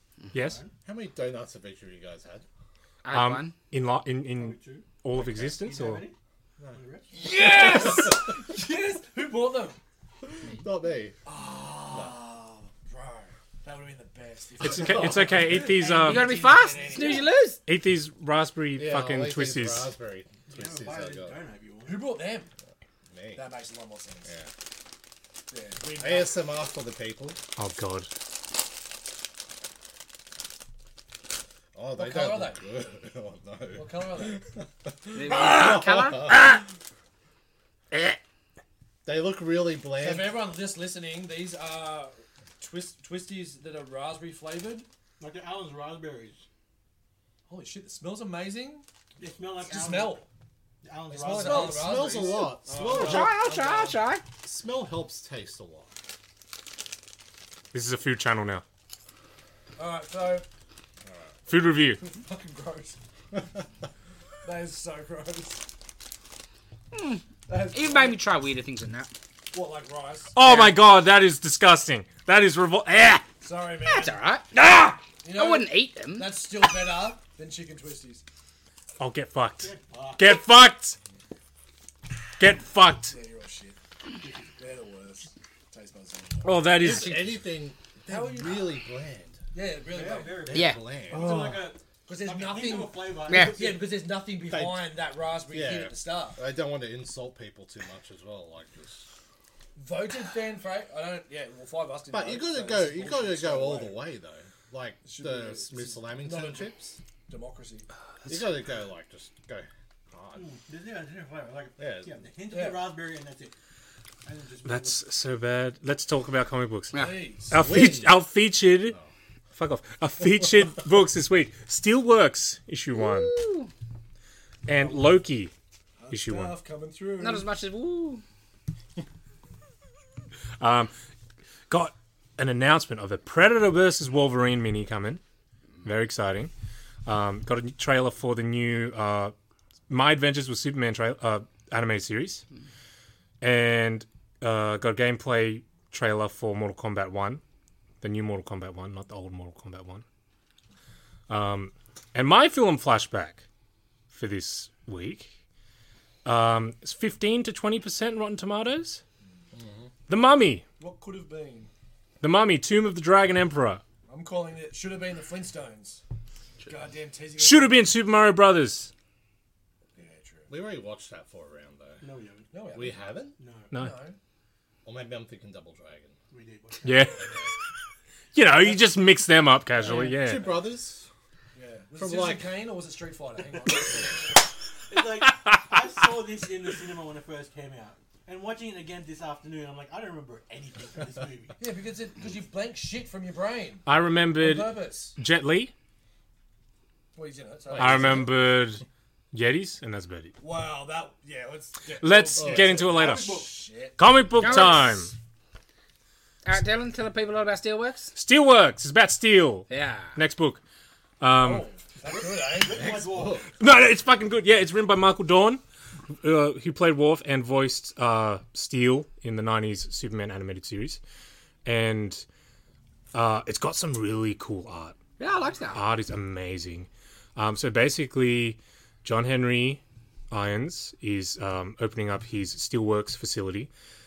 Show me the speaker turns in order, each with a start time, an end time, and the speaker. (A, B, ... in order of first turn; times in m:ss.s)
0:00.3-0:00.6 A
0:00.4-0:00.6 B
0:00.8-0:02.4 C
0:03.0-0:03.5 D
0:03.1-0:06.0 A
0:04.3-0:04.9 B
0:05.4-0:06.2 B
0:06.7-0:07.2 B
0:07.1-0:09.8 E
0:07.9-0:08.1 C
0:10.4-0:11.2 C
0:11.2-0:17.3 E
0:11.9-0:12.2 C
0:14.6-0:16.3 A
0:14.7-0:15.6 C
0:15.8-0:17.2 B
0:16.0-0:17.6 D
0:17.6-0:19.9 A
0:18.8-0:21.3 C
0:20.5-0:22.1 B
0:21.8-0:22.5 E
0:23.1-0:23.4 C
0:23.3-0:24.3 E
0:24.2-0:24.5 C
0:25.5-0:26.3 E
0:26.0-0:27.4 C
0:27.6-0:28.1 A
0:31.7-0:36.6 C
0:32.0-0:32.6 E
0:33.7-0:34.5 E
0:35.1-0:36.6 D
0:37.9-0:38.2 D
0:39.0-0:40.3 C
0:40.0-0:44.9 E
0:45.2-0:46.4 B
0:47.5-0:48.8 E
0:49.2-0:50.2 B
0:49.6-0:50.3 E
0:50.8-0:53.3 B
0:51.1-0:54.0 E
0:51.4-0:53.4 C
0:53.0-0:54.2 D
0:54.4-0:55.9 C
0:57.7-0:58.6 A
0:59.8-1:00.4 E
1:01.0-1:01.3 C
1:01.5-1:02.0 A
1:02.0-1:03.0 E
1:04.4-1:05.6 E
1:06.9-1:09.1 D
1:07.5-1:08.2 E
1:09.5-1:10.4 E
1:10.3-1:13.2 A
1:10.4-1:10.7 D
1:13.4-1:14.2 E
1:13.8-1:16.3 D
1:15.2-1:18.2 E
1:19.0-1:21.0 A
1:19.6-1:20.4 B
1:22.4-1:23.1 A
1:23.0-1:23.8 E
1:24.2-1:24.5 B
1:24.6-1:27.2 E
1:26.4-1:27.4 A
1:26.8-1:29.4 C
1:28.1-1:28.7 E
1:29.5-1:30.5 E
1:29.9-1:33.8 B
1:30.4-1:31.3 C
1:30.5-1:30.8 D
1:31.1-1:31.6 A
1:31.2-1:31.5 E
1:32.0-1:36.4 E
1:33.3-1:33.6 D
1:34.5-1:34.9 C
1:35.5-1:39.1 C
1:39.8-1:44.0 E
1:42.1-1:47.0 C
1:45.0-1:46.7 E
1:47.3-1:47.9 E
1:48.3-1:50.5 C
1:50.3-1:53.5 B
1:51.8-1:52.2 C
1:52.5-1:52.8 E
1:54.2-1:55.0 B
1:54.6-1:59.0 A
1:56.9-1:57.6 E
1:57.5-1:58.3 C
1:59.5-2:03.3 A
2:02.9-2:03.7 D
2:04.6-2:05.5 A
2:04.7-2:05.1 E
2:06.0-2:07.5 E
2:06.1-2:06.6 A
2:07.2-2:08.2 D
2:10.6-2:10.9 A
2:11.7-2:15.2 A
2:15.8-2:16.5 A
2:17.0-2:19.3 A
2:19.9-2:22.4 A
2:23.4-2:27.4 A
2:28.0-2:30.0 A
2:31.3-2:33.4 A
2:34.1-2:35.3 A
2:36.2-2:39.0 A
2:39.5-2:39.9 C
2:40.1-2:40.6 A
2:40.8-2:41.7 E
2:42.2-2:43.8 A
2:44.1-2:46.0 E
2:46.6-2:47.9 E
2:47.4-2:48.9 A
2:49.9-2:50.5 E
2:50.5-2:52.0 C
2:52.0-2:52.5 B
2:52.5-2:52.9 E
2:52.7-2:53.4 C
2:53.4-2:53.7 B
2:53.7-2:54.2 E
2:54.8-2:56.2 C
2:56.3-2:57.2 B
2:56.8-2:57.2 A
2:57.2-2:57.5 C
2:58.3-3:00.5 A
3:00.0-3:01.1 C
3:01.5-3:04.3 E
3:02.0-3:02.5 C
3:04.9-3:11.6 B
3:05.2-3:05.8 A
3:11.6-3:13.8 E
3:13.8-3:15.7 A
3:14.4-3:15.1 E
3:17.1-3:18.3 E
3:17.7-3:18.3 C
3:17.8-3:20.3 A
3:20.4-3:24.8 E
3:22.0-3:23.2 A
3:22.4-3:22.9 C
3:22.9-3:23.5 B
3:24.0-3:25.1 A
3:24.4-3:24.9 D
3:26.4-3:28.1 D
3:28.1-3:30.6 A
3:29.7-3:30.2 D
3:31.2-3:31.7 A
3:31.3-3:33.0 E
3:32.0-3:33.4 B
3:32.8-3:33.5 C
3:33.6-3:35.6 A
3:36.2-3:41.0 A
3:41.6-3:42.2 A
3:43.1-3:45.0 A
3:45.2-3:45.8 D
3:45.7-3:53.7 A